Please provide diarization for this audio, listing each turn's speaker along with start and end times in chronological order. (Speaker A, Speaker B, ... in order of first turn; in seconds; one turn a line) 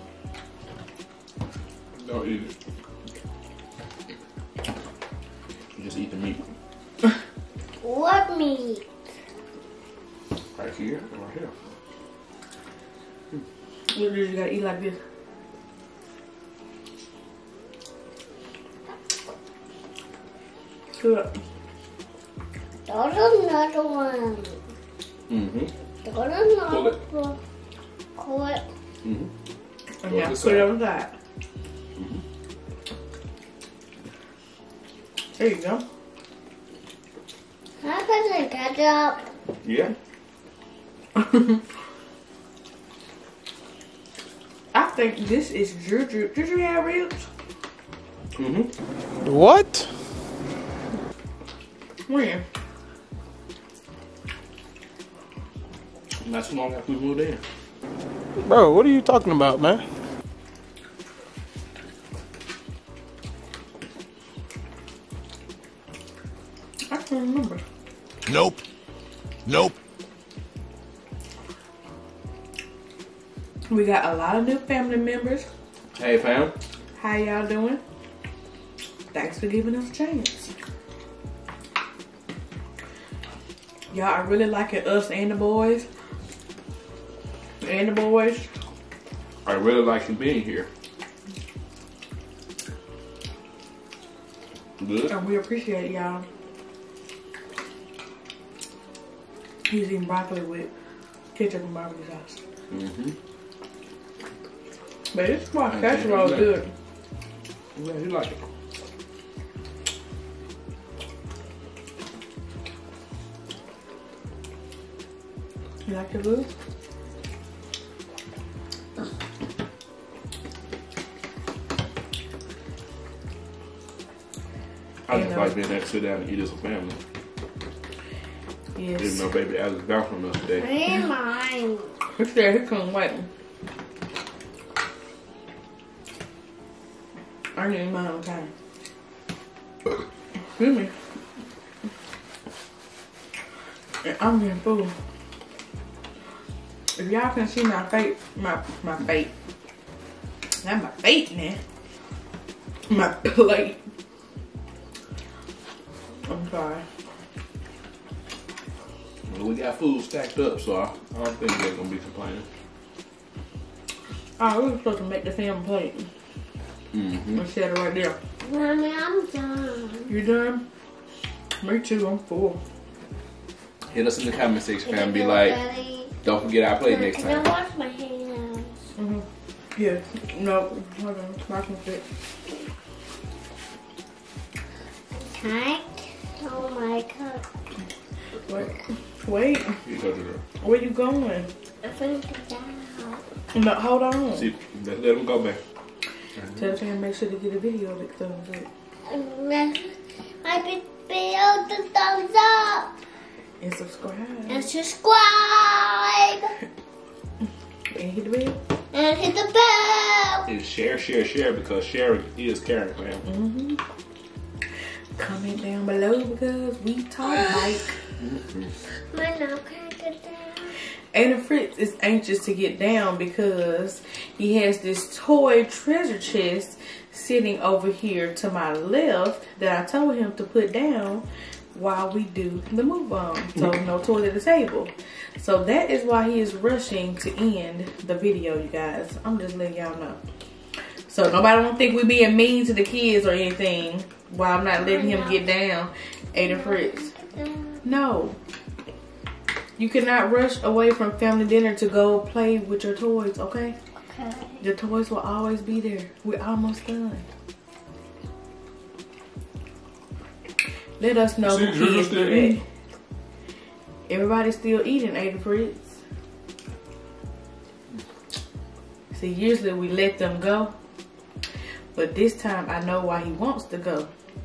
Speaker A: 2.0-2.5
Speaker A: 5.7-6.4
Speaker B: 7.8-8.8
Speaker A: 10.6-11.5
Speaker C: 13.9-15.0
Speaker C: 20.9-21.3
Speaker B: 22.9-24.6
Speaker A: 25.3-25.7
Speaker B: 26.0-27.4
Speaker A: 26.7-27.0
Speaker B: 28.1-28.6
Speaker A: 29.0-29.3
Speaker C: 30.0-31.1
Speaker A: 30.1-30.7
Speaker A: 32.0-32.2
Speaker C: 35.4-35.8
Speaker B: 37.8-39.3
Speaker A: 39.6-39.9
Speaker C: 41.1-41.6
Speaker C: 44.7-47.3
Speaker A: 48.4-48.7
Speaker D: 49.2-49.9
Speaker C: 52.1-52.4
Speaker A: 56.2-57.4
Speaker D: 58.4-59.8
Speaker C: 66.9-67.6
Speaker D: 68.3-68.6
Speaker D: 69.5-69.7
Speaker C: 73.7-75.5
Speaker A: 75.9-76.5
Speaker C: 77.0-77.8
Speaker C: 79.1-80.5
Speaker C: 83.9-85.9
Speaker C: 87.6-88.5
Speaker A: 89.5-90.7
Speaker A: 94.8-95.1
Speaker C: 95.1-96.2
Speaker C: 99.7-100.7
Speaker C: 101.3-102.4
Speaker A: 102.7-103.1
Speaker C: 105.1-106.7
Speaker A: 105.7-106.6
Speaker A: 107.8-108.4
Speaker C: 115.8-116.5
Speaker A: 125.1-127.0
Speaker C: 125.1-125.5
Speaker C: 128.8-129.2
Speaker A: 129.0-130.7
Speaker B: 130.6-131.9
Speaker C: 132.2-133.3
Speaker C: 137.5-138.5
Speaker C: 140.6-140.9
Speaker C: 144.0-144.9
Speaker C: 146.9-149.3
Speaker C: 150.6-151.6
Speaker C: 152.9-153.8
Speaker C: 156.3-156.8
Speaker A: 159.3-162.4
Speaker C: 164.4-166.1
Speaker A: 166.9-167.4
Speaker C: 167.3-168.2
Speaker B: 168.4-170.1
Speaker C: 170.1-170.6
Speaker C: 171.6-172.6
Speaker A: 173.9-175.6
Speaker B: 174.8-176.1
Speaker A: 176.2-177.5
Speaker B: 176.8-178.9
Speaker C: 179.0-179.2
Speaker C: 179.8-182.0
Speaker B: 185.1-187.4
Speaker C: 188.5-189.8
Speaker A: 189.8-190.4
Speaker C: 190.6-191.5
Speaker B: 191.8-193.2
Speaker C: 193.5-194.5
Speaker A: 194.3-195.6
Speaker C: 196.6-198.7
Speaker B: 199.1-202.9
Speaker C: 203.6-204.7
Speaker B: 204.5-206.5
Speaker C: 207.9-208.6
Speaker B: 208.9-210.5
Speaker A: 210.5-213.2
Speaker C: 213.2-213.8
Speaker C: 215.2-217.9
Speaker A: 218.2-218.7
Speaker B: 219.1-220.8
Speaker C: 221.1-240.2
Speaker C: 241.1-247.1
Speaker B: 244.8-245.4
Speaker B: 246.4-247.8
Speaker C: 247.8-248.4
Speaker C: 249.8-253.8
Speaker B: 254.1-254.7
Speaker C: 254.6-257.2
Speaker C: 261.0-262.6
Speaker A: 261.4-262.6
Speaker C: 264.1-266.0
Speaker C: 269.1-270.7
Speaker C: 271.9-274.1